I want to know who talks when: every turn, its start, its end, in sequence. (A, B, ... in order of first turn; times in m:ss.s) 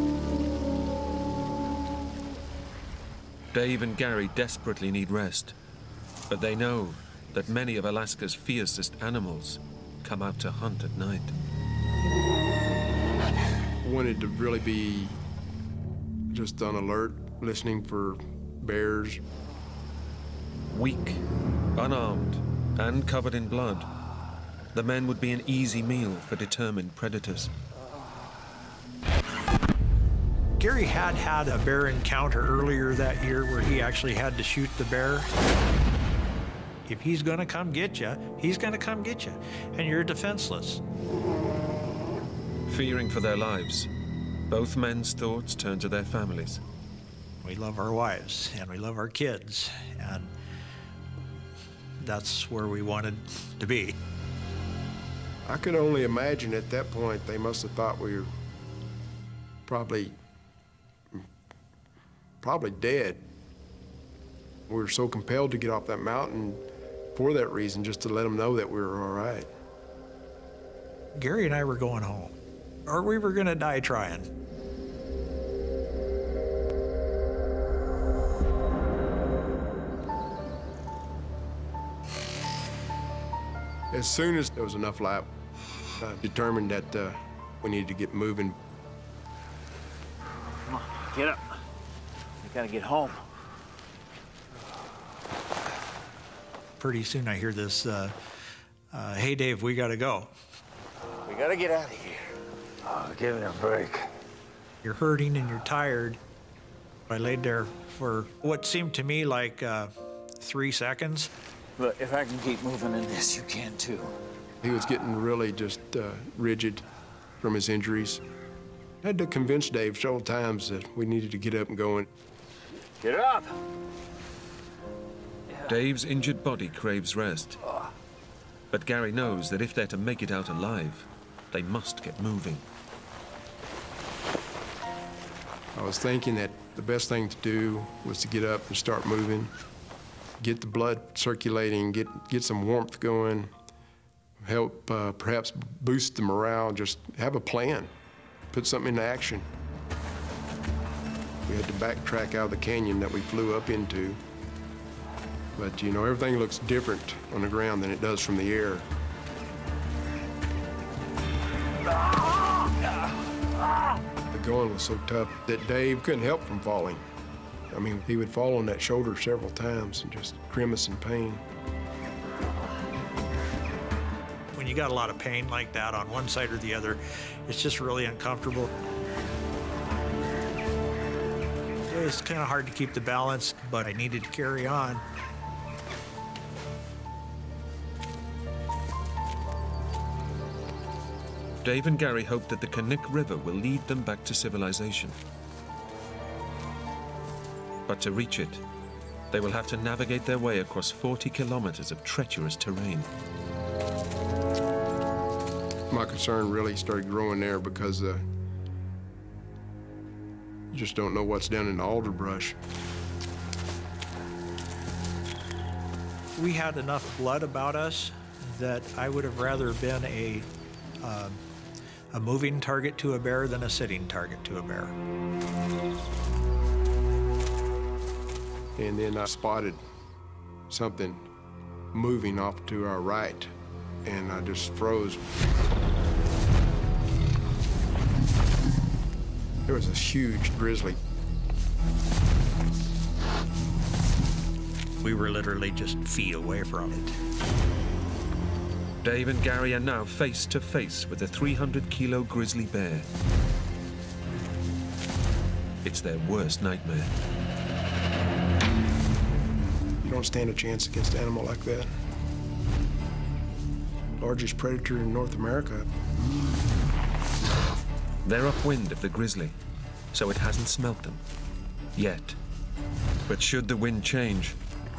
0:03.5-0:05.5 A
0:06.3-0:11.3 A
0:13.8-0:15.2 B
0:16.3-0:19.2 B
0:20.7-0:21.2 A
0:21.8-0:23.9 A
0:24.7-0:27.5 A
0:30.6-0:35.3 C
0:36.8-0:40.8 C
0:42.7-0:43.9 A
0:44.5-0:46.6 A
0:47.4-0:50.3 C
0:52.0-0:54.0 C
0:55.4-0:58.3 B
0:59.6-1:00.1 B
1:02.4-1:03.2 B
1:04.7-1:09.5 B
1:11.1-1:14.3 C
1:23.9-1:25.3 B
1:26.0-1:28.6 B
1:30.7-1:31.6 D
1:32.4-1:33.2 D
1:36.8-1:38.2 C
1:38.9-1:40.3 C
1:41.2-1:44.1 D
1:44.8-1:46.2 C
1:47.1-1:51.3 C
1:51.8-1:54.1 D
1:54.6-1:56.8 B
1:57.4-1:58.2 B
1:59.0-2:02.1 B
2:03.0-2:03.6 D
2:05.6-2:07.6 A
2:08.7-2:12.6 A
2:15.7-2:19.5 B
2:20.4-2:23.5 B
2:24.4-2:27.9 B
2:28.5-2:29.5 B
2:31.4-2:34.2 B
2:35.6-2:38.9 B
2:44.3-2:47.0 B
2:47.7-2:51.4 B
2:54.5-2:58.7 C
3:01.9-3:05.0 C
3:11.6-3:15.2 A
3:17.9-3:18.6 A
3:19.3-3:23.1 A
3:25.9-3:28.2 B
3:30.7-3:32.6 B
3:36.4-3:40.5 C
3:41.0-3:41.4 C
3:42.1-3:45.0 C
3:48.8-3:49.8 B
3:50.7-3:51.2 B
3:51.9-3:53.5 B
3:54.0-3:55.3 B
3:59.6-4:01.0 B
4:05.0-4:07.2 C
4:09.0-4:13.1 A
4:15.8-4:17.1 A
4:20.0-4:21.9 B
4:24.2-4:25.9 B
4:28.2-4:29.6 A
4:30.1-4:31.2 A
4:32.0-4:32.4 A
4:33.3-4:34.6 A